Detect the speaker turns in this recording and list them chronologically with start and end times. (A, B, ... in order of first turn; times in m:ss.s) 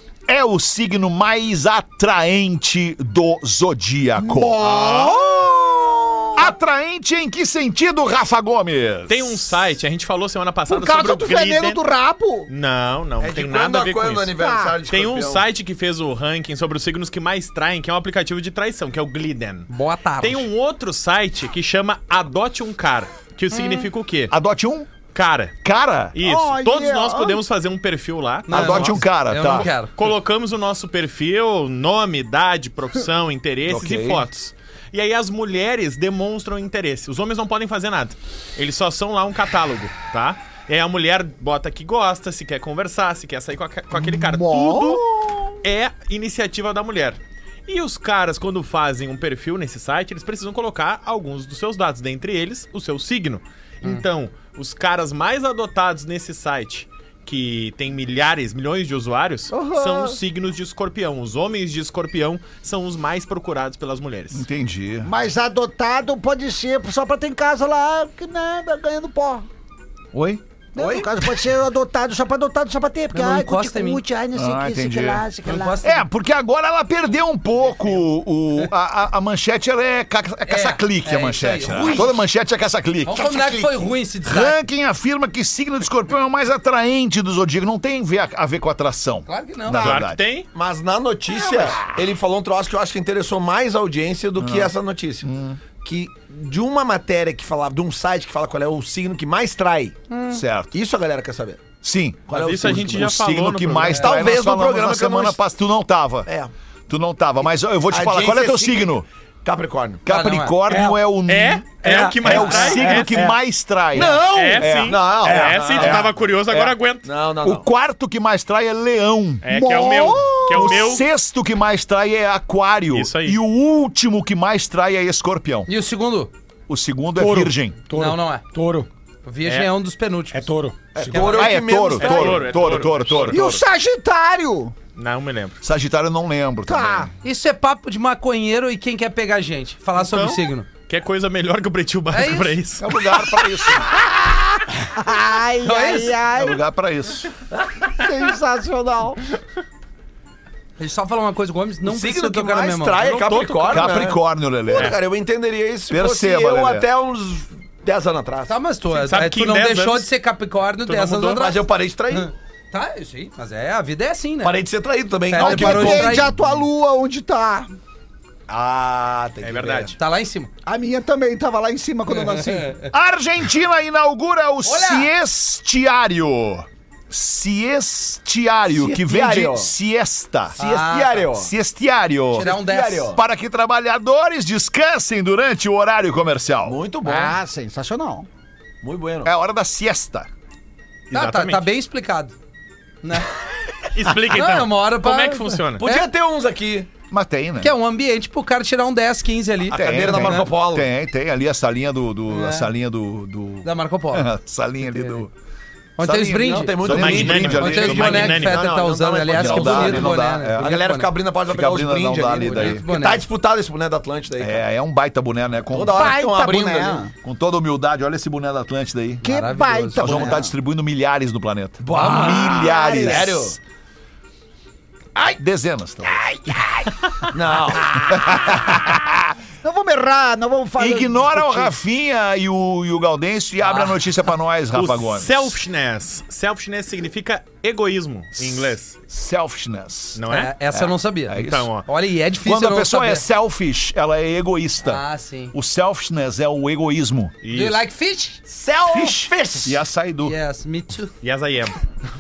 0:00.3-0:04.6 A
0:04.2-0:06.5 B
0:04.6-0:05.3 C
0:06.4-0:09.6 A
0:09.1-0:11.8 C
0:10.7-0:12.5 B
0:12.5-0:14.3 C
0:13.2-0:15.4 D
0:14.4-0:14.8 B
0:14.9-0:19.7 C
0:19.7-0:20.5 E
0:20.2-0:24.3 C
0:23.5-0:23.9 E
0:24.3-0:24.9 A
0:25.1-0:25.6 C
0:25.6-0:26.2 A
0:26.2-0:45.0 C
0:26.2-0:27.4 B
0:28.5-0:29.9 E
0:28.5-0:29.7 A
0:33.6-0:34.3 A
0:43.9-0:45.5 B
0:45.6-1:04.4 C
0:59.5-1:00.2 B
1:04.3-1:05.1 A
1:05.0-1:09.5 B
1:10.1-1:10.4 A
1:10.8-1:15.8 B
1:10.8-1:11.1 D
1:13.1-1:14.0 E
1:14.3-1:15.3 A
1:15.4-1:16.0 E
1:15.8-1:30.2 A
1:20.5-1:22.1 E
1:23.0-1:24.6 E
1:29.3-1:30.0 E
1:29.7-1:30.5 C
1:30.5-1:40.0 D
1:34.4-1:34.7 A
1:35.2-1:35.6 A
1:40.1-1:40.4 E
1:40.3-1:40.7 A
1:40.7-1:41.7 D
1:41.8-1:46.3 A
1:42.3-1:43.1 D
1:42.3-1:44.0 C
1:43.9-1:45.4 D
1:43.9-1:44.2 E
1:46.3-1:46.5 D
1:46.9-1:49.1 A
1:47.9-1:50.0 D
1:50.1-1:56.7 A
1:50.1-1:50.6 E
1:50.7-1:51.0 F
1:51.3-1:53.3 C
1:51.8-1:53.4 F
1:53.9-1:56.1 D
1:54.0-1:57.1 C
1:55.2-1:55.7 F
1:57.0-1:57.7 D
1:57.4-1:59.5 A
1:59.4-2:01.1 C
1:59.5-2:00.8 B
2:00.5-2:05.7 A
2:02.9-2:03.4 C
2:05.7-2:06.3 E
2:06.7-2:07.9 A
2:07.2-2:08.9 F
2:07.9-2:08.4 E
2:09.2-2:10.5 E
2:09.4-2:09.7 C
2:10.3-2:11.5 F
2:10.9-2:12.9 D
2:11.1-2:13.6 A
2:12.0-2:13.4 C
2:13.3-2:14.7 B
2:15.0-2:15.6 C
2:15.6-2:17.1 A
2:16.7-2:17.1 B
2:17.2-2:20.7 E
2:20.0-2:23.0 C
2:22.1-2:22.6 E
2:22.8-2:24.0 A
2:23.8-2:26.6 B
2:25.6-2:26.2 E
2:26.3-2:27.3 A
2:27.9-2:29.2 B
2:30.8-2:33.0 E
2:31.8-2:38.5 D
2:33.0-2:34.1 C
2:33.7-2:35.0 A
2:34.7-2:35.0 C
2:35.9-2:36.9 A
2:38.5-2:44.6 E
2:38.9-2:40.1 C
2:40.9-2:41.5 C
2:41.3-2:42.3 D
2:44.4-2:46.3 D
2:45.3-2:46.3 E
2:45.4-2:47.7 B
2:48.5-2:49.9 D
2:49.4-2:50.0 C
2:50.0-2:50.5 E
2:50.6-2:52.8 B
2:52.1-2:52.7 E
2:52.9-3:00.6 A
2:54.6-2:55.1 E
2:58.7-2:59.7 D
3:00.6-3:01.5 D
3:00.6-3:01.3 E
3:01.3-3:02.6 A
3:02.3-3:03.1 E
3:02.4-3:03.2 D
3:03.1-3:06.8 A
3:06.6-3:07.4 D
3:07.0-3:08.3 B
3:08.8-3:09.3 D
3:09.2-3:10.3 A
3:11.1-3:11.6 C
3:11.1-3:12.3 E
3:13.0-3:13.3 E
3:13.9-3:15.9 C
3:14.3-3:16.1 E
3:15.8-3:16.9 D
3:17.1-3:17.7 A
3:17.6-3:20.5 E
3:19.7-3:20.9 D
3:19.7-3:25.3 A
3:22.3-3:22.7 E
3:23.6-3:24.3 E
3:24.9-3:25.2 E
3:26.0-3:31.1 E
3:26.0-3:28.4 A
3:26.3-3:34.6 D
3:26.8-3:28.7 C
3:29.3-3:30.7 A
3:31.5-3:32.8 A
3:32.4-3:33.2 E
3:34.4-3:36.2 A
3:35.7-3:37.1 D
3:35.9-3:37.1 B
3:37.2-3:39.2 A
3:39.2-3:40.4 E
3:39.2-3:40.5 B
3:40.0-3:43.6 A
3:41.8-3:43.6 D
3:42.0-3:42.4 E
3:42.3-3:43.3 B
3:45.4-3:46.6 A
3:46.1-3:48.6 D
3:48.1-3:49.2 A
3:49.6-3:51.7 B
3:50.8-3:55.6 A
3:53.6-3:53.9 E
3:54.7-3:59.0 C
3:58.4-4:00.2 A
4:00.2-4:00.5 C
4:00.3-4:03.2 E
4:00.7-4:01.7 A
4:01.3-4:01.9 C
4:02.4-4:07.4 A
4:04.8-4:05.5 E
4:07.4-4:07.8 C
4:07.5-4:08.4 E
4:08.5-4:09.8 D
4:08.9-4:10.4 A
4:10.2-4:11.1 E
4:11.2-4:11.8 C